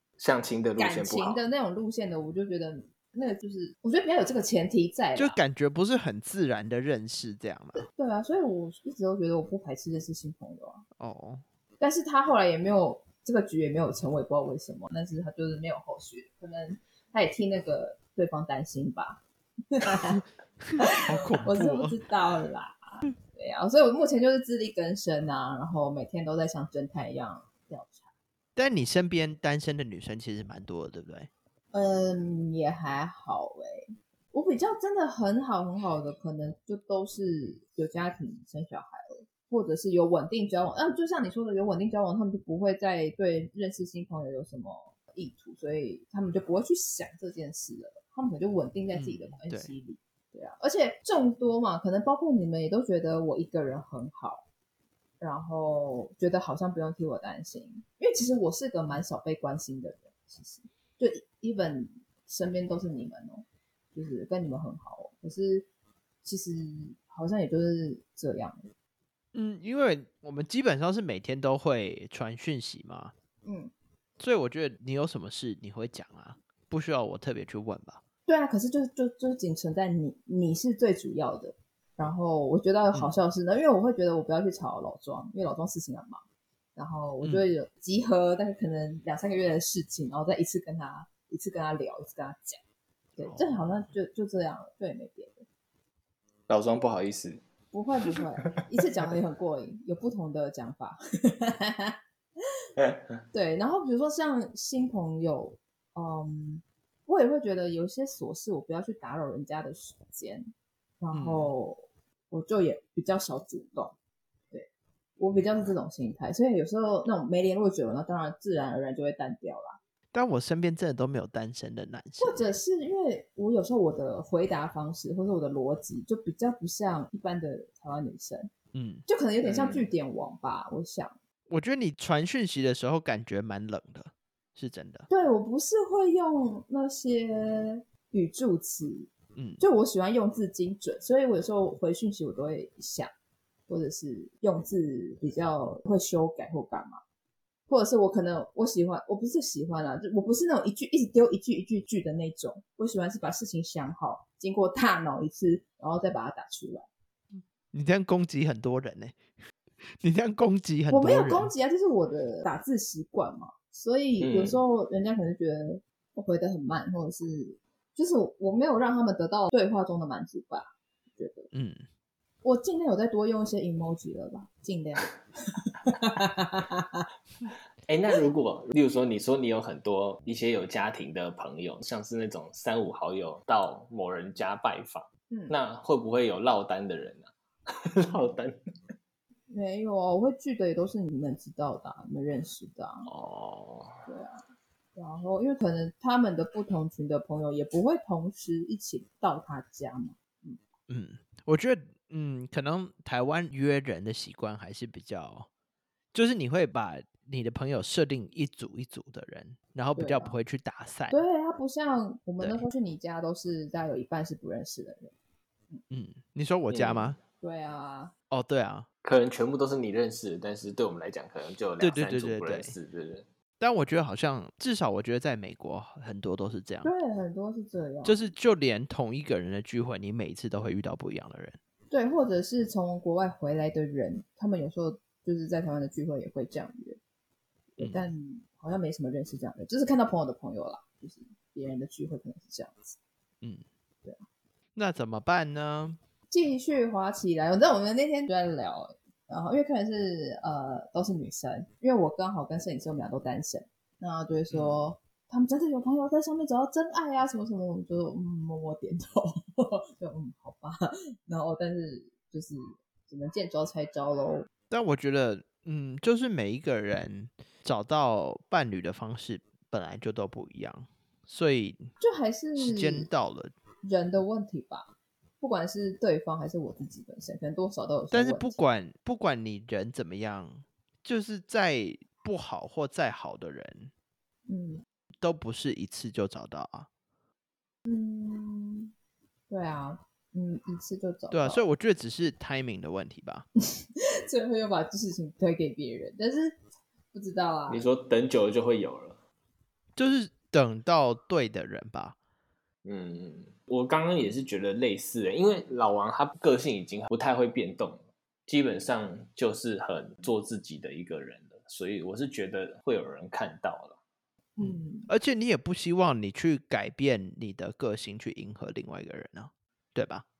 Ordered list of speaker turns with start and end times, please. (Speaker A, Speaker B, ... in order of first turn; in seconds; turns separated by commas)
Speaker A: 0.2-1.4, Speaker B: 0.8-5.4, Speaker C: 5.2-7.9, Speaker B: 7.8-10.8, Speaker C: 11.0-11.4, Speaker B: 11.8-20.2, Speaker C: 20.2-22.0, Speaker B: 20.8-28.1, Speaker C: 28.6-31.3, Speaker B: 31.7-54.5, Speaker C: 48.9-49.7, Speaker B: 55.2-65.7, Speaker B: 66.2-68.7, Speaker C: 69.3-73.1, Speaker B: 73.5-73.7, Speaker C: 74.2-78.0, Speaker B: 78.3-86.2, Speaker B: 86.8-92.6, Speaker B: 93.2-95.5, Speaker C: 93.2-93.9, Speaker A: 96.5-97.4, Speaker B: 97.7-102.0, Speaker B: 103.3-110.5, Speaker B: 111.0-114.0, Speaker C: 111.1-111.5, Speaker B: 114.5-119.8, Speaker C: 120.1-122.5, Speaker B: 122.2-128.5, Speaker C: 128.7-129.0, Speaker B: 129.1-131.2, Speaker A: 129.4-129.9, Speaker C: 131.5-135.1, Speaker B: 135.1-143.1, Speaker C: 139.4-139.6, Speaker B: 143.7-147.0, Speaker B: 147.7-156.9, Speaker C: 157.7-159.2, Speaker C: 159.9-161.5, Speaker B: 160.9-171.5, Speaker A: 164.2-164.6, Speaker C: 171.5-171.8, Speaker B: 172.4-177.1, Speaker A: 177.9-188.6, Speaker B: 185.3-185.5, Speaker B: 189.5-193.1, Speaker A: 193.1-194.0, Speaker B: 194.1-194.4, Speaker B: 195.0-200.6, Speaker C: 200.9-205.5, Speaker C: 206.1-211.2, Speaker B: 210.0-210.4, Speaker B: 211.1-215.2, Speaker C: 212.4-212.7, Speaker C: 215.9-217.2, Speaker A: 216.7-217.1, Speaker B: 217.4-218.1, Speaker C: 218.3-218.9, Speaker A: 219.0-223.2, Speaker C: 221.8-222.7, Speaker C: 223.6-226.9, Speaker B: 226.8-228.3, Speaker C: 228.0-231.6, Speaker B: 231.9-237.0, Speaker B: 237.8-243.0, Speaker C: 237.8-238.0, Speaker C: 244.8-246.0, Speaker B: 246.3-264.5, Speaker C: 254.5-254.8, Speaker C: 264.7-271.9, Speaker B: 272.0-273.1, Speaker C: 272.6-273.5, Speaker B: 273.9-278.6, Speaker C: 278.1-283.9, Speaker B: 284.5-284.8, Speaker C: 285.2-286.9, Speaker B: 287.9-288.9, Speaker B: 289.5-291.6, Speaker C: 291.3-293.5, Speaker B: 293.8-296.6, Speaker B: 297.1-297.9, Speaker A: 297.7-299.2, Speaker C: 300.0-302.2, Speaker A: 302.8-314.0, Speaker B: 314.6-315.1, Speaker C: 314.6-320.2